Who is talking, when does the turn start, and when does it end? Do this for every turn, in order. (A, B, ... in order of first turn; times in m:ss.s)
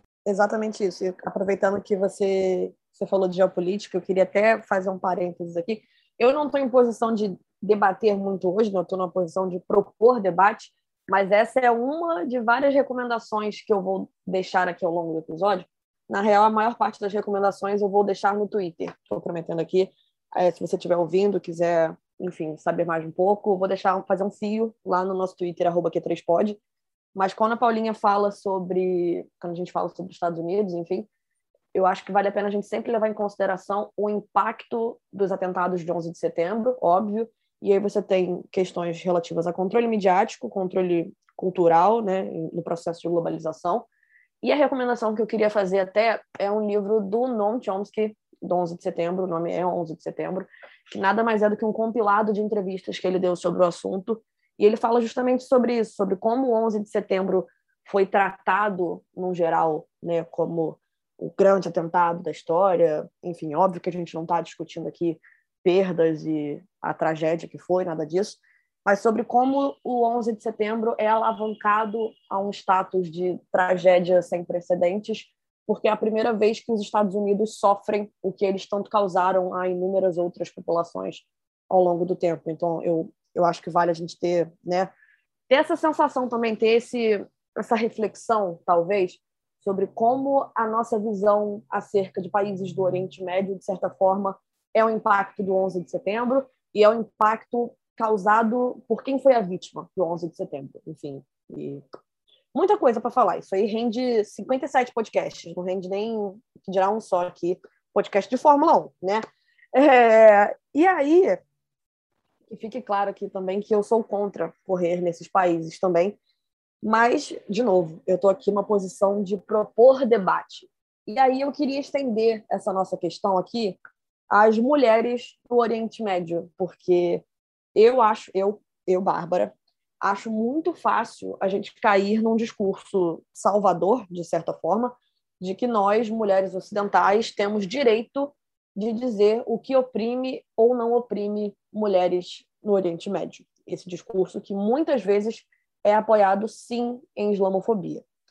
0:00.2-0:26.6 A
0:27.1-0:31.1 A
0:31.7-0:43.9 A
0:44.4-1:24.9 A
1:25.5-1:41.8 A
1:42.5-1:51.4 A
1:52.5-1:56.2 A
1:56.8-2:07.2 A
2:07.7-2:28.0 A